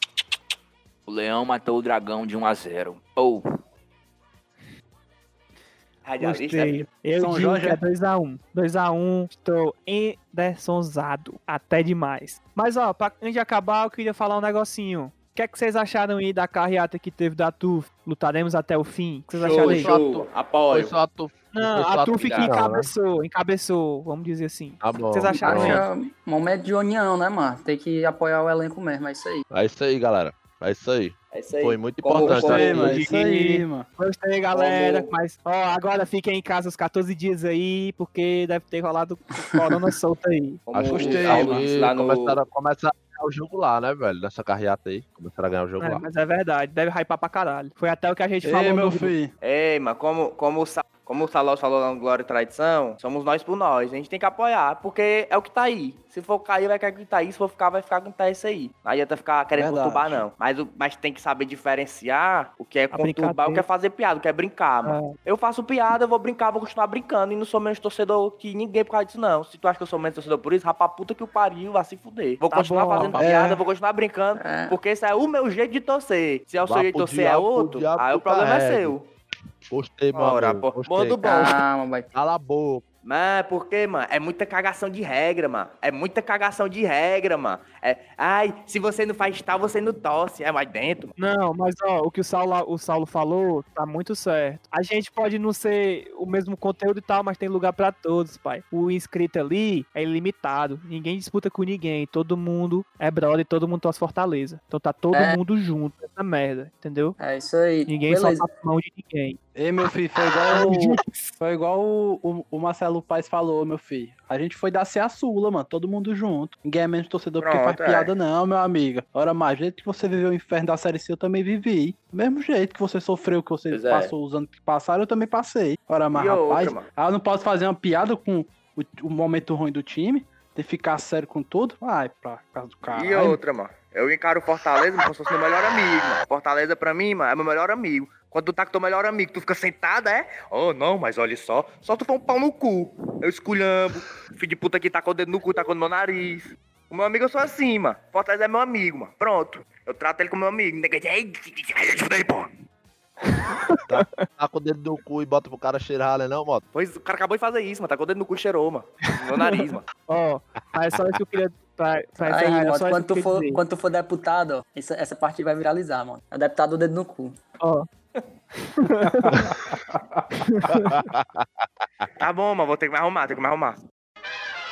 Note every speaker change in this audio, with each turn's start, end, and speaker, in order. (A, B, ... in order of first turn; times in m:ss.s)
0:01.1-0:03.4 A
0:06.0-0:06.9 B
0:06.2-0:19.9 C
0:07.2-0:07.8 D
0:19.3-0:20.9 B
0:19.5-0:22.9 E
0:21.5-0:25.8 C
0:24.8-0:25.8 E
0:25.4-0:29.4 F
0:29.5-0:33.0 E
0:31.3-0:33.0 B
0:32.2-0:33.8 D
0:32.8-0:40.6 C
0:34.5-0:35.1 B
0:40.7-0:41.6 B
0:40.7-0:46.0 E
0:41.0-0:41.5 D
0:41.0-0:42.4 A
0:45.8-0:49.1 C
0:48.4-0:49.3 D
0:49.4-1:19.0 B
0:59.5-1:00.2 D
1:02.9-1:03.6 C
1:04.8-1:05.2 C
1:12.5-1:13.3 C
1:13.2-1:13.5 D
1:14.4-1:14.8 F
1:16.6-1:18.9 E
1:19.7-1:21.5 E
1:20.1-1:21.6 B
1:21.2-1:22.1 F
1:22.1-1:22.8 E
1:23.0-1:31.1 B
1:31.2-1:47.2 C
1:45.1-1:45.4 F
1:47.2-1:48.4 F
1:47.9-1:49.4 C
1:49.6-2:13.4 D
1:50.5-1:51.3 C
1:57.4-1:58.1 B
2:03.7-2:04.1 A
2:06.1-2:06.9 B
2:12.9-2:32.5 B
2:33.3-2:34.3 C
2:33.9-2:36.6 E
2:36.7-2:39.8 B
2:39.3-2:39.5 C
2:40.1-2:43.6 C
2:42.2-2:47.3 F
2:47.6-2:47.9 C
2:48.7-2:49.4 C
2:50.3-2:51.0 C
2:50.9-2:51.4 E
2:52.2-2:53.8 B